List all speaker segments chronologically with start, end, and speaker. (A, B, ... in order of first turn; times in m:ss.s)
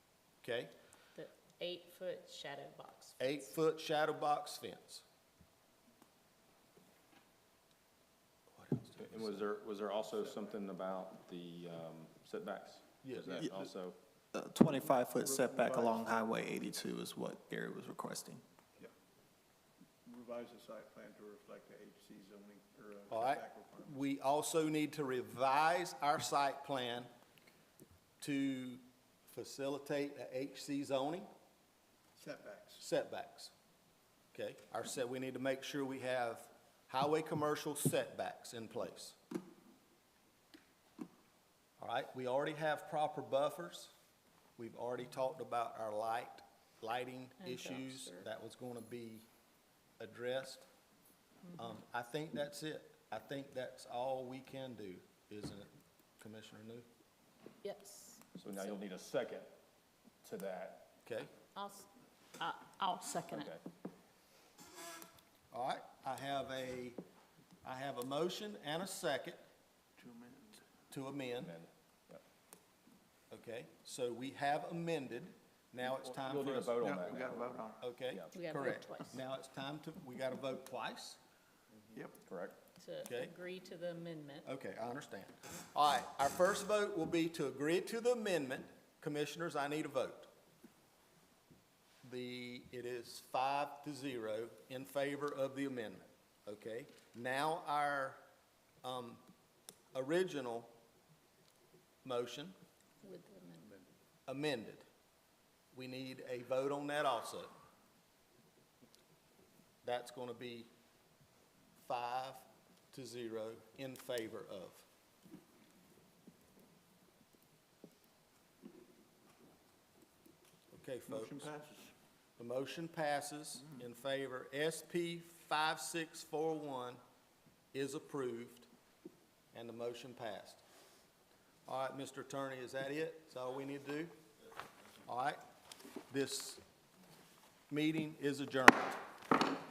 0:00.4-0:00.7 A
0:01.1-0:03.4 B
0:03.2-0:05.0 A
0:08.5-0:09.4 A
0:09.0-0:14.0 C
0:13.0-0:13.7 A
0:14.3-0:18.4 D
0:14.8-0:16.3 E
0:20.0-0:24.0 E
0:23.1-0:27.1 A
0:28.2-0:31.3 A
0:32.2-0:32.8 E
0:32.8-0:33.5 A
0:34.3-0:39.2 A
0:41.8-0:43.9 A
0:44.6-0:49.2 A
0:47.4-0:48.2 B
0:50.0-0:50.7 A
0:51.5-0:56.8 A
0:57.6-0:58.3 B
0:58.4-0:59.5 C
1:00.2-1:00.9 C
1:01.0-1:01.3 A
1:01.6-1:03.5 B
1:03.3-1:03.6 C
1:05.5-1:07.0 A
1:07.6-1:09.4 A
1:10.0-1:10.6 E
1:10.9-1:11.6 A
1:11.4-1:12.2 C
1:13.3-1:16.8 A
1:15.9-1:18.3 C
1:16.8-1:17.8 E
1:17.8-1:21.2 A
1:18.3-1:19.2 B
1:22.2-1:22.6 C
1:22.8-1:24.5 B
1:23.0-1:23.3 A
1:24.4-1:30.3 A
1:32.0-1:38.2 A
1:38.8-1:39.2 A
1:39.9-1:40.7 A
1:42.0-1:42.6 A
1:43.0-1:43.8 B
1:44.3-1:44.8 A
1:45.7-1:47.5 A
1:49.8-1:50.7 A
1:51.8-1:54.8 A
2:00.7-2:01.4 A
2:01.1-2:01.9 E
2:02.4-2:07.0 A
2:07.7-2:08.7 A
2:09.5-2:10.6 A
2:11.6-2:14.1 A
2:15.0-2:15.4 A
2:16.1-2:16.6 A
2:17.7-2:19.0 A